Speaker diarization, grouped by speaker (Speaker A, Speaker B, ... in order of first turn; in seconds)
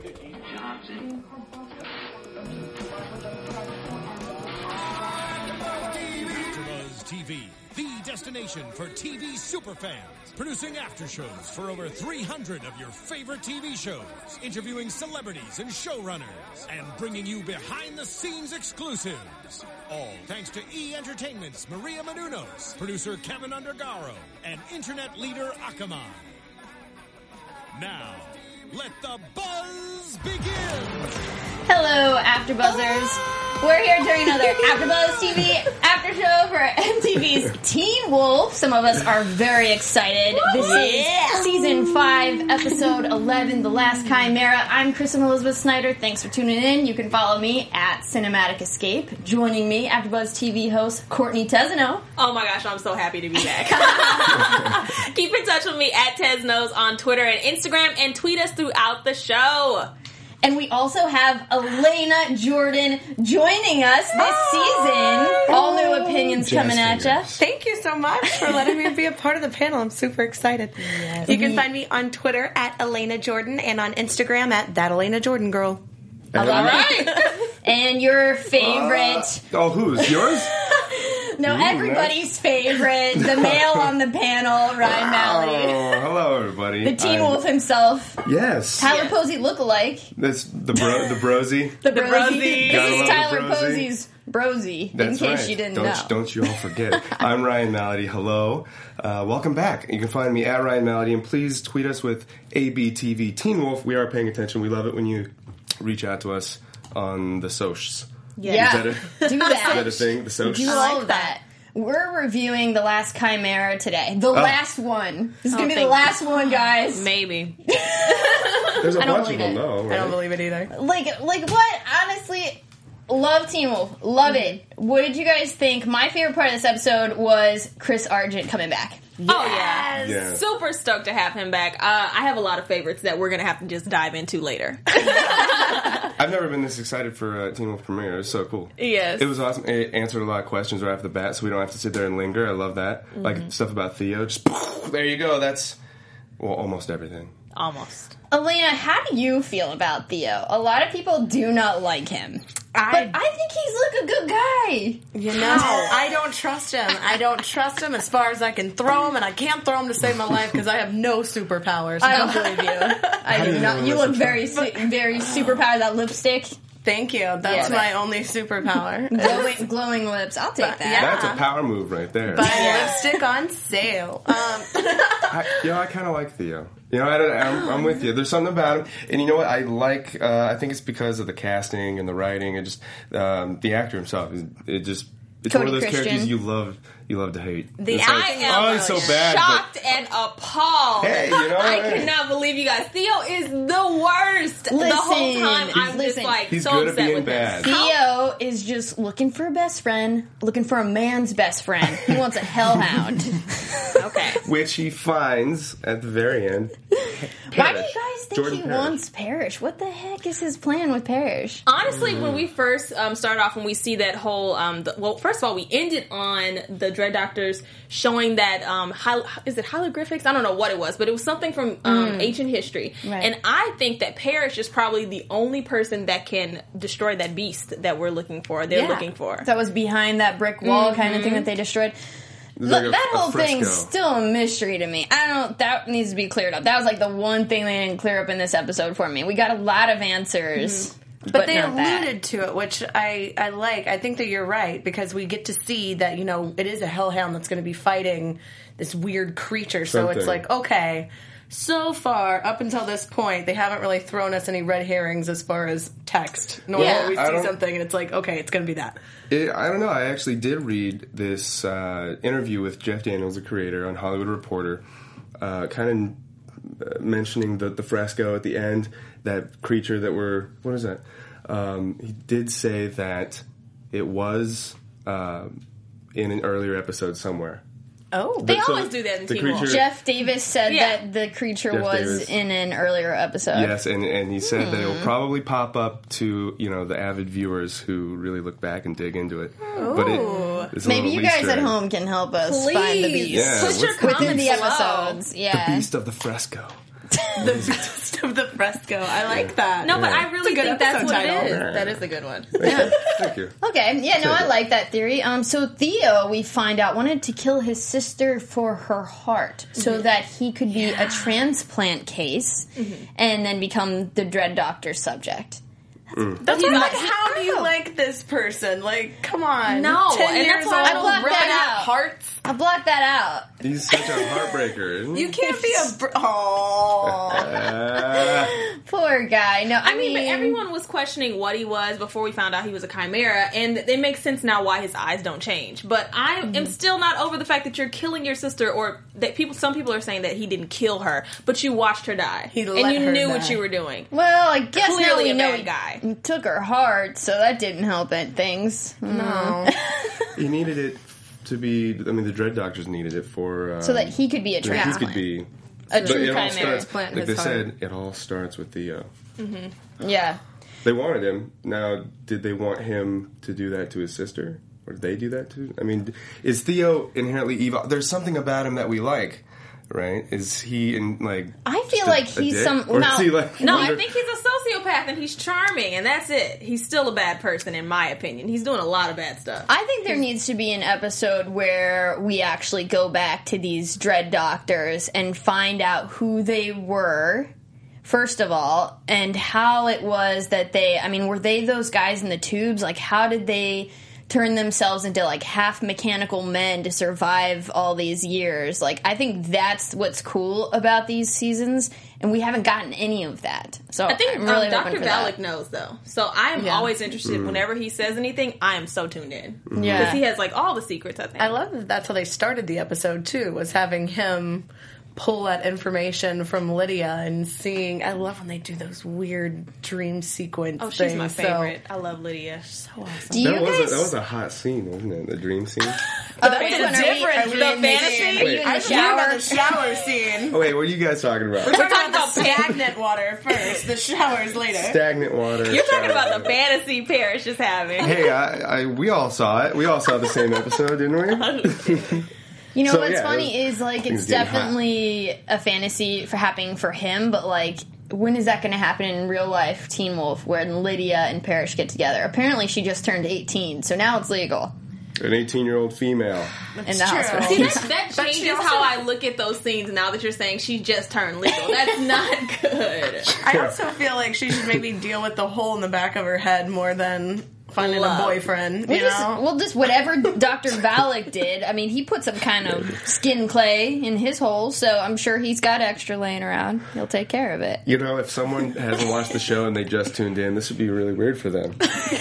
Speaker A: 5.7-26.3, 27.7-31.1
Speaker B: 31.6-52.0, 53.6-54.6, 60.4-67.3, 71.2-71.6, 76.8-79.4, 80.0-86.0, 86.8-88.2, 88.8-90.1, 91.8-97.2, 108.4-117.1, 117.7-119.6, 120.7-129.2, 148.3-155.9, 162.0-166.5, 167.5-167.9, 169.1-171.3, 185.5-186.3, 194.7-196.4, 197.6-203.9, 207.5-211.6, 221.8-222.3, 223.0-223.3, 228.7-231.9, 232.6-242.1, 279.6-283.8, 284.5-285.1, 290.8-295.9, 297.1-297.4, 302.6-303.0, 303.6-315.6, 316.6-316.9, 320.8-323.5, 325.6-325.9, 327.5-330.6, 344.1-350.4, 353.8-355.3, 355.9-356.9, 360.0-360.4, 371.6-373.9, 379.7-387.5, 388.0-405.4, 409.8-410.2, 423.3-424.1, 426.4-429.8, 442.7-454.7, 456.9-457.9, 468.9-477.8
Speaker C: 40.5-41.4, 52.2-59.9, 76.4-77.4, 88.8-89.2, 91.8-93.2, 108.4-110.0, 110.7-111.4, 115.5-117.6, 118.1-118.7, 129.3-136.1, 138.8-139.3, 143.1-143.5, 147.5-148.1, 155.4-155.9, 167.5-167.8, 172.4-172.9, 187.9-197.9, 203.9-204.4, 211.7-229.5, 230.6-231.5, 256.8-257.1, 278.4-279.8, 280.7-281.0, 289.7-290.7, 292.4-295.2, 299.8-302.8, 312.8-313.0, 316.4-317.7, 319.6-321.7, 329.8-344.1, 344.8-346.0, 359.4-359.7, 373.6-379.7, 404.1-411.6, 420.8-422.8, 426.4-429.1, 431.7-432.8, 435.7-438.1, 441.3-442.2, 457.4-463.4, 467.8-468.4
Speaker D: 40.6-40.9, 64.2-66.3, 67.4-75.8, 76.3-77.2, 119.9-120.7, 129.3-130.2, 152.7-153.2, 155.1-163.3, 164.5-165.6, 166.8-169.6, 170.6-171.4, 172.3-175.4, 187.8-189.1, 241.3-259.0, 278.1-278.5, 289.8-290.6, 297.4-301.7, 316.4-322.4, 325.1-327.6, 342.5-343.6, 349.1-349.7, 354.7-355.0, 355.9-357.7, 406.5-406.9, 411.4-421.7, 422.7-423.5, 426.4-430.6, 431.6-435.0, 456.7-459.0, 463.4-469.4
Speaker E: 66.4-67.4, 76.3-76.9, 78.5-80.6, 81.4-82.2, 83.1-83.9, 84.8-87.4, 88.2-88.9, 90.1-91.8, 92.6-93.9, 94.9-110.9, 118.8-120.2, 130.0-130.4, 136.1-145.8, 146.4-147.3, 163.3-164.4, 170.9-172.7, 175.3-189.7, 191.0-192.1, 196.5-197.7, 204.4-209.0, 211.9-212.4, 232.6-233.9, 249.8-250.4, 256.7-257.6, 259.3-264.8, 265.4-275.6, 276.1-277.6, 278.4-279.9, 281.7-282.3, 283.5-291.8, 293.3-294.7, 295.5-296.8, 297.4-297.8, 299.3-300.3, 301.4-302.0, 302.5-303.5, 304.2-304.5, 316.1-316.4, 323.6-325.4, 327.0-328.6, 350.4-355.5, 356.0-359.1, 360.8-374.0, 407.2-407.6, 409.7-410.1, 423.4-426.0, 428.4-428.7, 430.5-431.8, 434.7-436.5, 438.0-442.2, 442.8-444.8, 455.2-456.5, 463.5-463.8, 477.9-482.0